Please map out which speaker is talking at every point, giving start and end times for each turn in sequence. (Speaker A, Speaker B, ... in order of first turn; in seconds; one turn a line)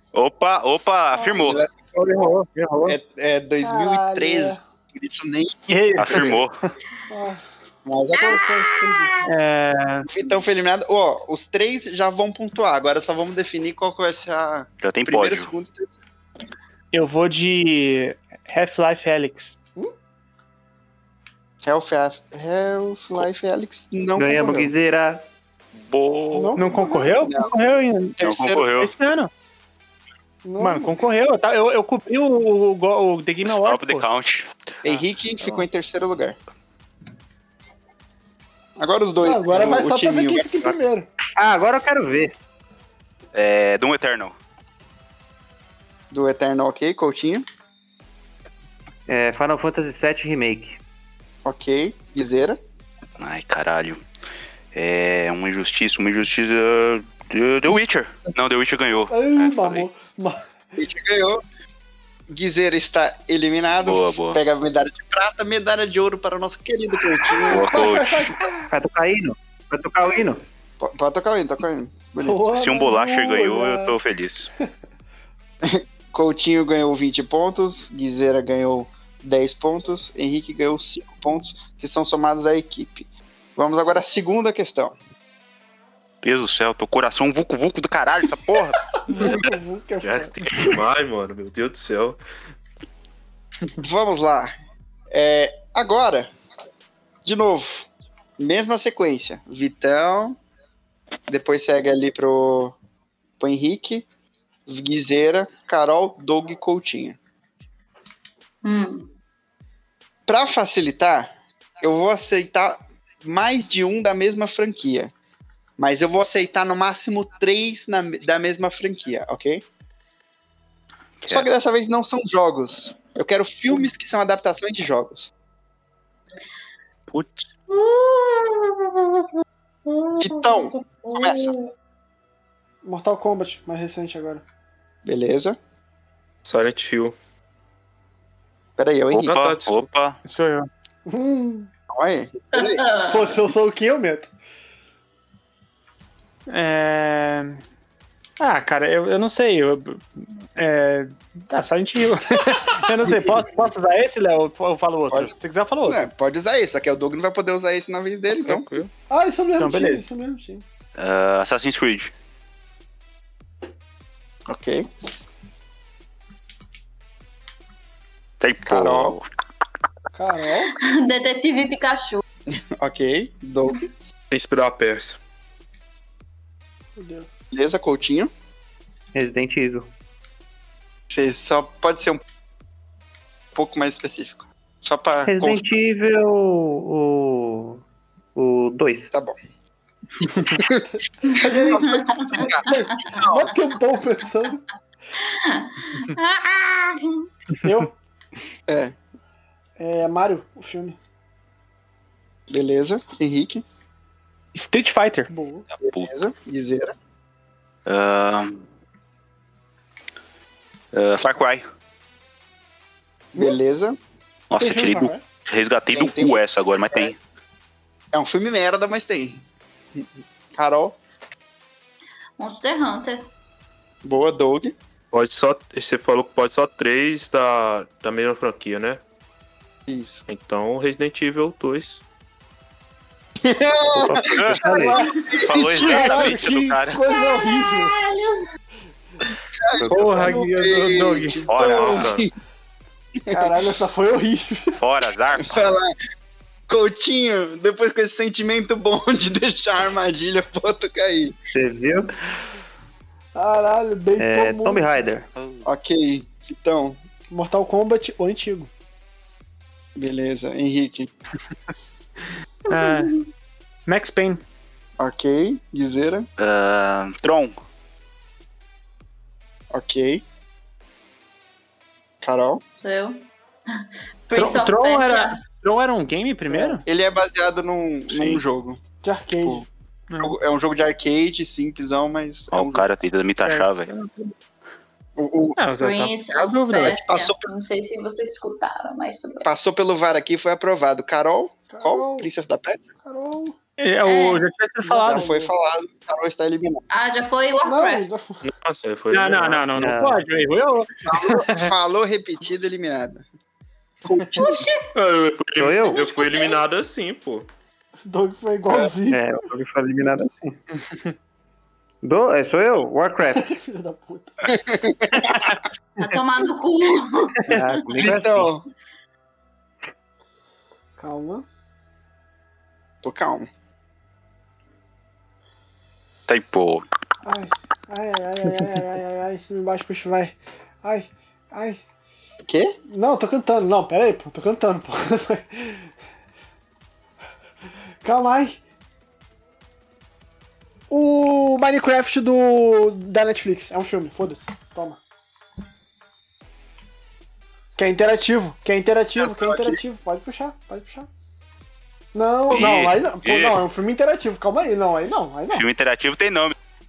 Speaker A: 0.1-1.6
Speaker B: 1.1-1.6
Speaker C: 1.4-2.1
Speaker D: 1.9-3.0
Speaker C: 2.9-6.4
Speaker B: 3.6-4.6
Speaker D: 5.7-6.5
Speaker A: 6.0-6.5
Speaker B: 7.1-7.4
Speaker C: 7.8-8.4
Speaker E: 8.1-9.1
Speaker B: 8.1-9.1
Speaker D: 9.2-10.1
Speaker C: 10.1-15.9
Speaker A: 14.8-15.5
Speaker D: 16.9-19.6
Speaker C: 21.6-24.7
Speaker F: 24.1-25.2
Speaker A: 25.8-26.5
Speaker B: 26.3-27.1
Speaker D: 26.6-28.2
Speaker C: 26.9-27.6
Speaker C: 28.2-28.7
Speaker A: 28.2-28.9
Speaker D: 28.8-29.3
Speaker B: 30.4-31.0
Speaker D: 30.6-34.0
Speaker A: 33.4-34.5
Speaker C: 34.8-36.4
Speaker C: 38.8-40.7
Speaker B: 39.2-41.1
Speaker F: 41.4-42.3
Speaker A: 43.3-44.3
Speaker C: 46.1-47.5
Speaker F: 49.1-50.8
Speaker C: 51.4-52.6
Speaker A: 53.2-54.0
Speaker A: 54.7-59.9
Speaker B: 59.1-60.4
Speaker C: 60.8-61.4
Speaker C: 62.3-67.8
Speaker A: 63.8-64.4
Speaker B: 67.3-68.7
Speaker A: 67.5-68.3
Speaker F: 68.7-70.4
Speaker C: 70.8-72.5
Speaker B: 72.2-73.9
Speaker A: 72.5-74.5
Speaker C: 75.6-85.0
Speaker A: 86.2-88.8
Speaker B: 89.1-90.8
Speaker G: 89.1-89.5
Speaker G: 90.0-92.2
Speaker C: 93.8-94.5
Speaker C: 95.1-96.3
Speaker C: 97.2-97.9
Speaker C: 98.4-100.4
Speaker C: 101.3-102.8
Speaker C: 103.4-104.1
Speaker C: 104.7-107.2
Speaker E: 108.6-109.1
Speaker C: 110.3-115.1
Speaker C: 115.8-119.6
Speaker A: 121.2-121.5
Speaker C: 121.3-125.3
Speaker A: 127.1-127.5
Speaker E: 127.7-129.2
Speaker E: 129.8-131.7
Speaker C: 130.2-131.5
Speaker B: 132.8-134.4
Speaker C: 135.0-135.6
Speaker G: 136.4-137.1
Speaker C: 138.8-139.3
Speaker A: 139.1-140.2
Speaker G: 139.2-139.8
Speaker D: 140.2-140.7
Speaker B: 141.1-141.7
Speaker C: 141.9-142.9
Speaker E: 142.5-143.3
Speaker B: 143.1-144.3
Speaker D: 146.5-147.6
Speaker D: 148.4-156.1
Speaker C: 155.8-158.7
Speaker G: 158.4-158.9
Speaker B: 159.1-160.6
Speaker D: 159.6-160.0
Speaker A: 161.0-162.1
Speaker C: 164.5-164.9
Speaker A: 168.4-169.3
Speaker C: 168.6-169.2
Speaker B: 170.1-170.7
Speaker E: 170.8-172.2
Speaker C: 172.5-173.8
Speaker G: 174.3-175.2
Speaker B: 177.0-177.3
Speaker C: 177.5-178.3
Speaker F: 179.1-179.9
Speaker C: 181.1-182.2
Speaker C: 183.5-185.6
Speaker F: 185.2-187.8
Speaker F: 188.3-189.1
Speaker C: 189.1-189.4
Speaker C: 190.4-190.8
Speaker B: 190.8-194.6
Speaker E: 191.4-193.2
Speaker C: 191.6-193.5
Speaker E: 195.2-197.2
Speaker B: 197.6-197.9
Speaker C: 198.7-198.9
Speaker B: 199.8-201.0
Speaker C: 202.5-203.6
Speaker D: 204.5-205.3
Speaker B: 205.3-205.7
Speaker C: 205.8-206.9
Speaker A: 207.8-208.6
Speaker A: 210.9-211.6
Speaker C: 213.3-214.0
Speaker A: 214.5-217.2
Speaker B: 214.6-215.2
Speaker C: 215.9-217.1
Speaker C: 218.1-221.0
Speaker E: 222.4-223.2
Speaker C: 224.0-224.8
Speaker G: 225.1-229.0
Speaker C: 229.9-230.2
Speaker G: 230.3-232.0
Speaker C: 233.4-236.2
Speaker F: 233.9-235.0
Speaker A: 234.1-237.0
Speaker B: 235.8-237.9
Speaker E: 237.1-238.4
Speaker C: 239.5-242.3
Speaker F: 239.7-240.5
Speaker D: 239.9-241.4
Speaker A: 241.5-242.2
Speaker G: 241.7-242.2
Speaker C: 243.2-243.6
Speaker B: 243.3-244.8
Speaker A: 244.8-245.7
Speaker C: 245.4-245.9
Speaker C: 246.7-251.3
Speaker F: 251.4-252.2
Speaker B: 253.3-254.9
Speaker F: 254.2-255.3
Speaker A: 255.3-255.6
Speaker C: 255.6-257.0
Speaker B: 257.3-258.7
Speaker C: 259.9-261.1
Speaker D: 262.7-263.1
Speaker E: 262.7-263.2
Speaker D: 263.9-264.4
Speaker C: 265.0-266.2
Speaker A: 266.4-267.6
Speaker C: 269.7-270.2
Speaker C: 272.2-272.6
Speaker E: 272.8-273.2
Speaker E: 274.3-275.4
Speaker D: 274.3-276.8
Speaker B: 276.5-276.8
Speaker C: 276.9-278.8
Speaker B: 279.0-279.6
Speaker C: 279.4-279.7
Speaker D: 280.1-280.4
Speaker C: 280.2-283.0
Speaker A: 282.5-283.9
Speaker D: 283.4-284.3
Speaker C: 285.1-285.6
Speaker D: 285.6-287.0
Speaker E: 285.8-289.5
Speaker C: 286.9-287.5
Speaker C: 289.4-292.8
Speaker B: 291.7-292.3
Speaker B: 293.0-293.6
Speaker D: 293.8-295.2
Speaker E: 294.0-294.5
Speaker B: 294.8-295.5
Speaker C: 295.1-296.8
Speaker E: 296.9-298.2
Speaker B: 297.6-298.4
Speaker G: 298.4-299.8
Speaker D: 299.1-301.7
Speaker F: 299.8-300.2
Speaker C: 301.0-303.2
Speaker C: 304.0-304.6
Speaker E: 304.3-304.9
Speaker G: 304.9-307.5
Speaker F: 305.5-306.0
Speaker E: 305.9-306.6
Speaker B: 308.1-309.2
Speaker F: 309.1-310.6
Speaker D: 310.9-311.1
Speaker F: 312.0-313.5
Speaker B: 313.4-314.6
Speaker C: 314.5-315.4
Speaker D: 315.1-315.6
Speaker E: 316.0-318.0
Speaker F: 317.5-318.5
Speaker C: 318.0-318.6
Speaker B: 321.0-321.4
Speaker C: 323.0-323.5
Speaker A: 326.3-326.8
Speaker B: 327.2-331.8
Speaker C: 332.4-332.8
Speaker B: 332.9-335.9
Speaker B: 338.0-338.6
Speaker B: 340.9-345.0
Speaker B: 347.8-351.1
Speaker C: 349.2-349.8
Speaker B: 352.1-355.6
Speaker A: 352.5-353.6
Speaker A: 355.5-356.6